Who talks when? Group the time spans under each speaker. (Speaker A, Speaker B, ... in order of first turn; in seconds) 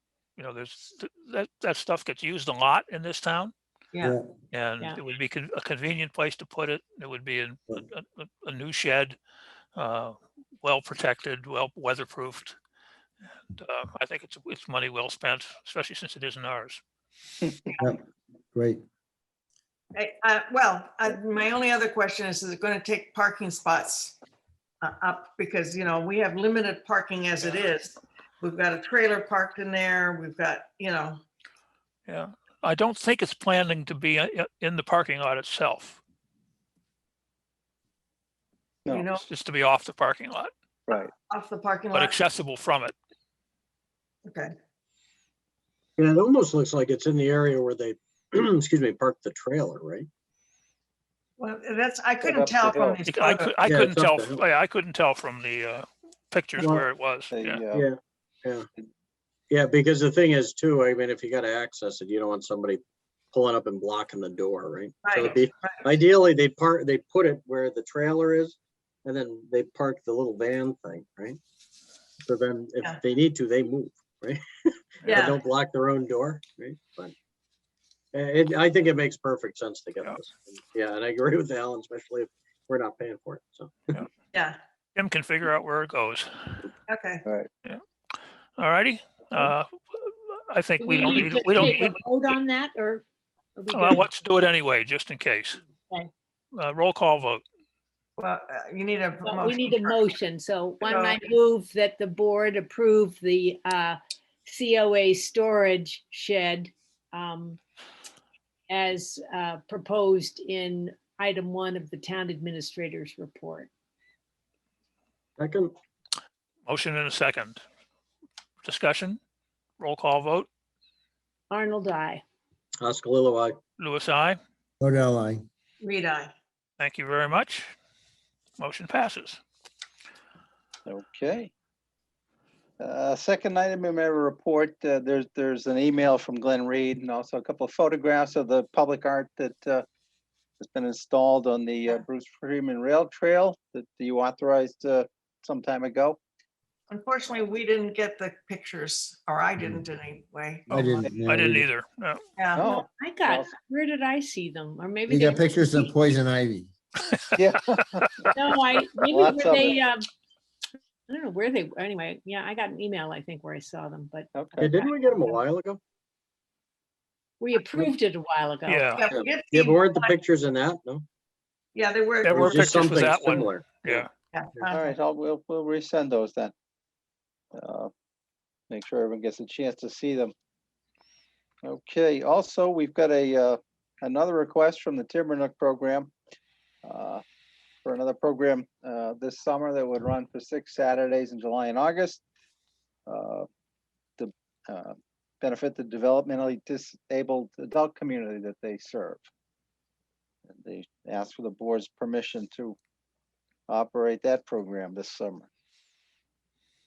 Speaker A: 0.4-3.5, 4.5-9.2, 9.8-12.6, 13.5-16.8, 32.1-36.0, 39.2-40.5, 41.9-42.9, 53.0-57.6, 85.0-86.6, 88.6-92.0, 93.7-95.6, 96.5-97.4, 116.7-117.6, 118.6-119.2, 119.8-120.5, 123.8-124.4, 126.8-127.7, 128.6-129.4, 151.2-152.2, 168.7-169.0, 172.2-174.1
Speaker B: 3.9-4.2, 19.9-24.2, 24.8-31.2, 38.9-39.2, 41.3-42.1, 44.2-44.5, 51.4-53.6, 65.0-66.0, 75.0-75.4, 84.3-84.6, 86.9-87.2, 98.2-100.0, 100.8-101.2, 125.8-126.3, 146.9-151.2, 152.4-152.7, 169.0-170.2, 171.7-172.9, 174.3-174.9
Speaker C: 18.5-18.8, 124.8-125.4, 150.7-151.7, 155.1-156.7
Speaker D: 46.0-50.1, 53.6-54.4, 56.6-56.9, 57.7-58.7, 59.5-71.4, 72.2-77.1, 78.1-83.9, 115.4-115.7, 122.8-123.6, 164.6-165.8, 169.1-171.1, 172.3-174.1
Speaker E: 52.2-53.0, 57.3-57.9, 130.8-131.5, 132.8-139.8, 140.6-146.2, 152.5-153.5, 157.3-158.1, 159.1-159.8, 164.3-164.7, 174.7-176.5, 177.5-177.9, 178.7-180.3, 181.6-186.1, 186.8-187.2, 187.8-192.2, 193.1-193.4, 194.2-199.2, 200.5-202.8, 203.7-205.5
Speaker F: 90.8-93.0, 93.5-94.0, 99.2-107.6, 108.7-113.7, 121.5-122.2, 152.6-155.9, 158.3-160.1, 161.1-165.3, 167.4-169.0